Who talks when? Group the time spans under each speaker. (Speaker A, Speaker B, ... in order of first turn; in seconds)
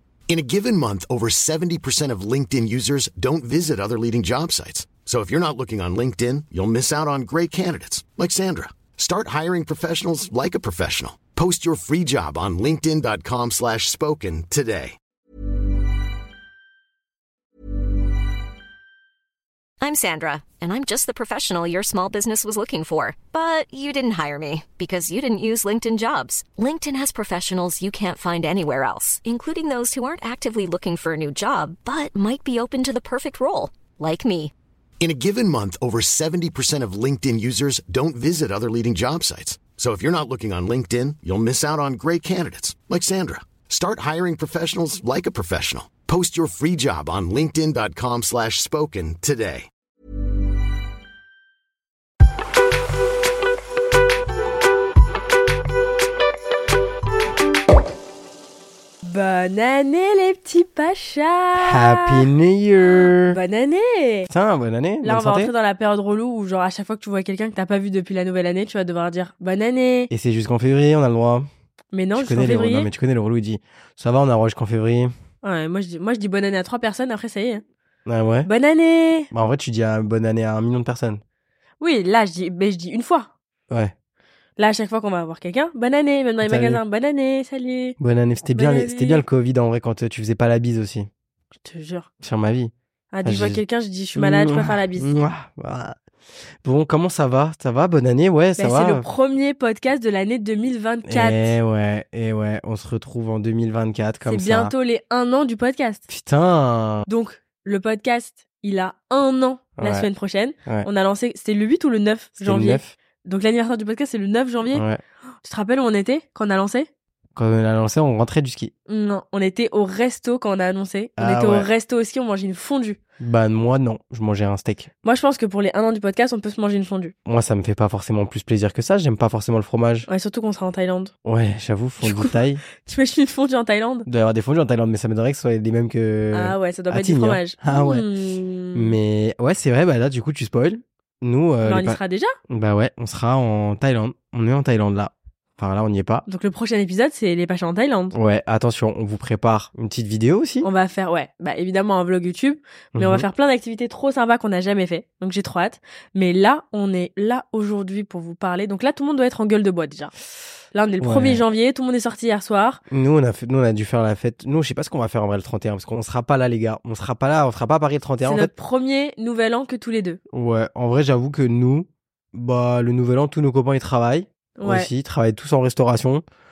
Speaker A: 0.3-15.0, 35.0-49.7
Speaker B: 19.8-34.5
Speaker C: 59.0-62.3, 63.3-64.3, 65.0-70.1, 71.9-72.9, 75.4-77.6, 78.4-79.3, 81.8-83.3, 84.6-88.0, 88.5-89.2, 91.6-92.1, 93.1-95.1, 98.6-101.6, 104.2-106.0, 107.1-114.8, 115.4-116.9, 118.9-123.0, 125.0-127.1, 130.1-131.1, 132.0-134.1, 136.3-139.0, 141.6-142.3, 146.3-148.1, 150.6-160.1, 160.7-162.8, 168.2-170.2, 174.6-174.9
Speaker D: 61.6-63.4, 64.3-65.5, 70.1-71.5, 72.1-75.1, 78.1-78.5, 79.3-81.2, 86.4-86.8, 88.0-91.1, 92.2-92.7, 93.2-93.6, 94.2-96.0, 96.6-99.1, 101.1-104.7, 106.1-107.1, 109.8-110.1, 112.4-112.9, 114.7-115.0, 117.3-118.7, 121.2-121.7, 123.2-124.9, 127.2-130.1, 131.2-132.6, 134.1-138.1, 138.7-146.2, 148.1-150.7, 152.9-153.3, 161.0-161.4, 162.9-168.5, 170.3-176.2